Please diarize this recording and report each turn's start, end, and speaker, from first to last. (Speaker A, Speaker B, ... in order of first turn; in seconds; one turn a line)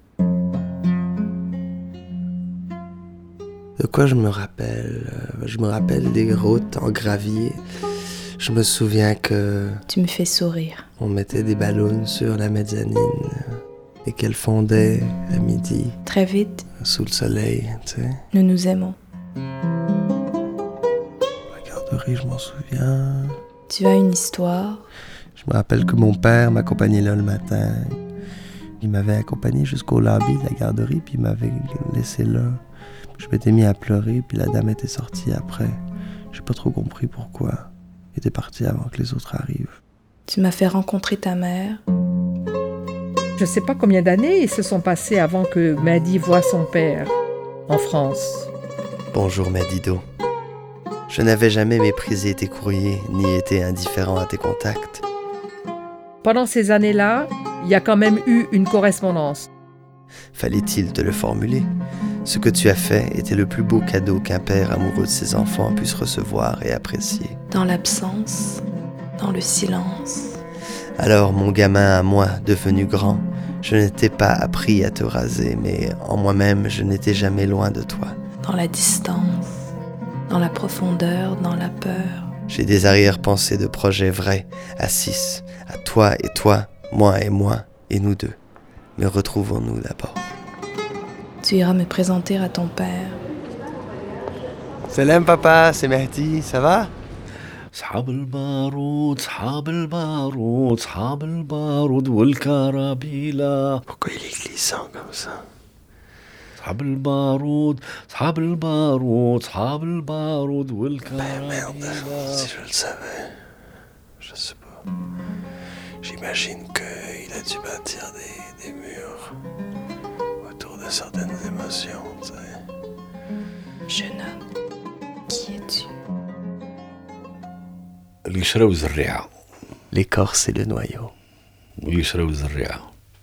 Speaker A: 3.8-7.6
Speaker A: 8.4-9.8
Speaker B: 9.9-10.8
Speaker A: 11.0-13.5
Speaker A: 14.1-16.0
Speaker B: 16.1-16.7
Speaker A: 16.8-18.2
Speaker B: 18.3-19.0
Speaker A: 21.5-23.4
Speaker B: 23.7-24.9
Speaker A: 25.4-28.0
Speaker A: 28.8-32.6
Speaker A: 33.2-35.8
Speaker A: 36.3-39.8
Speaker B: 40.3-41.8
Speaker C: 43.4-47.1
Speaker C: 47.7-48.5
Speaker A: 49.1-50.0
Speaker A: 51.1-55.0
Speaker C: 56.2-59.5
Speaker A: 60.3-61.7
Speaker A: 62.2-67.4
Speaker B: 67.5-68.6
Speaker B: 69.2-70.4
Speaker A: 71.0-78.2
Speaker B: 78.4-79.7
Speaker B: 80.3-82.3
Speaker A: 82.5-88.4
Speaker A: 89.0-90.2
Speaker B: 91.4-93.2
Speaker A: 94.9-96.9
Speaker D: 97.7-103.8
Speaker A: 103.9-105.5
Speaker D: 106.6-112.5
Speaker A: 111.3-113.4
Speaker A: 114.2-114.8
Speaker A: 116.0-119.3
Speaker A: 120.4-122.6
Speaker B: 123.9-124.4
Speaker B: 125.3-125.9
Speaker D: 128.2-129.3
Speaker A: 129.9-131.1
Speaker D: 131.8-132.9